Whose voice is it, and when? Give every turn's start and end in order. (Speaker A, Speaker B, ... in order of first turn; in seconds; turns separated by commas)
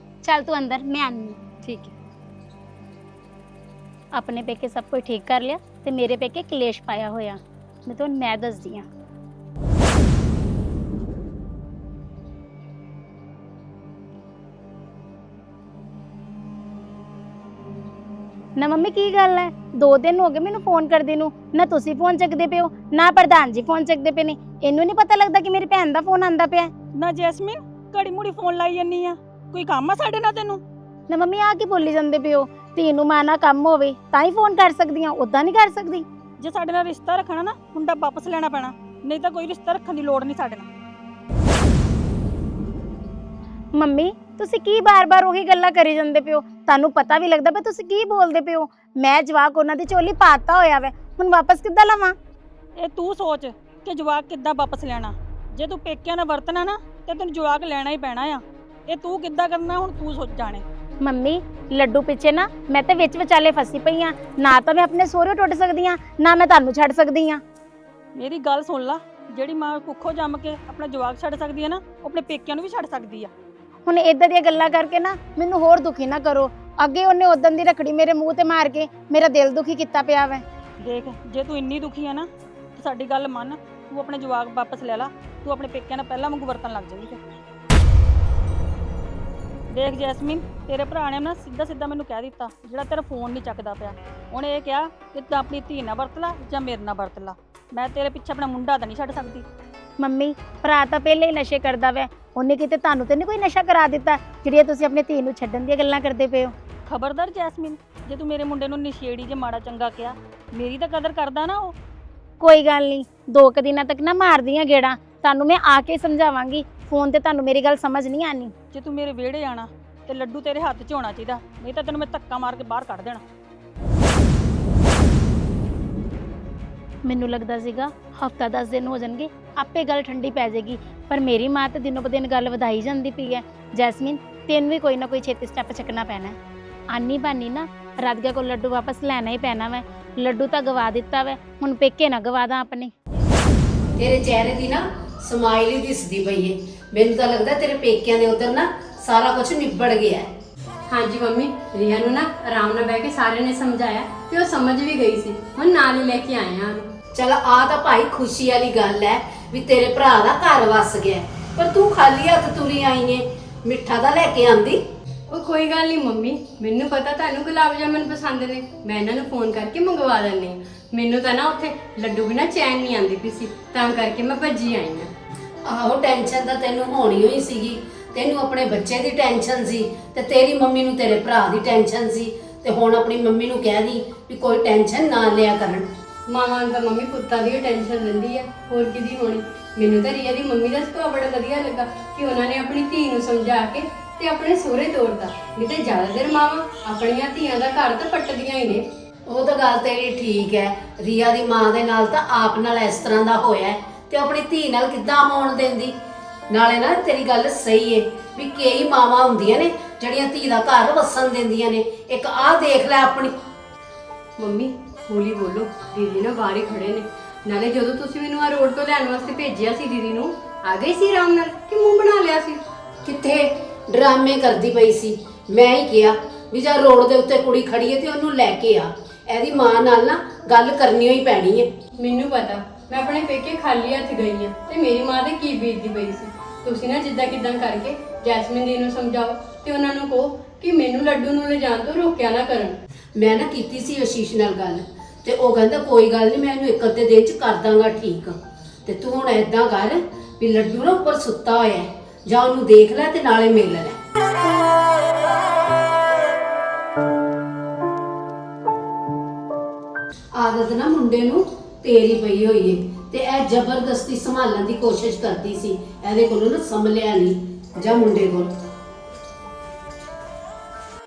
Speaker A: 0.2-1.4, Speaker B: 1.6-1.9, Speaker A: 4.1-8.9, Speaker A: 18.6-26.7, Speaker C: 27.0-30.6, Speaker A: 31.1-36.1, Speaker C: 36.4-40.7, Speaker A: 43.8-52.1, Speaker C: 52.8-58.4, Speaker C: 58.9-60.6, Speaker A: 61.0-67.4, Speaker C: 68.2-73.3, Speaker A: 73.9-80.4, Speaker C: 80.9-82.3, Speaker C: 82.8-87.2, Speaker C: 89.8-99.4, Speaker A: 100.0-106.5, Speaker C: 106.9-111.7, Speaker A: 112.4-118.5, Speaker C: 118.8-123.2, Speaker A: 127.0-136.4, Speaker A: 136.9-142.9, Speaker D: 144.0-150.3, Speaker B: 150.9-156.9, Speaker D: 157.1-164.8, Speaker B: 165.3-175.1, Speaker D: 175.7-185.9, Speaker B: 186.3-198.9, Speaker D: 199.3-205.9, Speaker D: 206.5-213.3, Speaker B: 214.4-222.6, Speaker D: 223.1-231.7, Speaker B: 232.0-242.8, Speaker D: 243.2-254.0, Speaker D: 260.4-268.5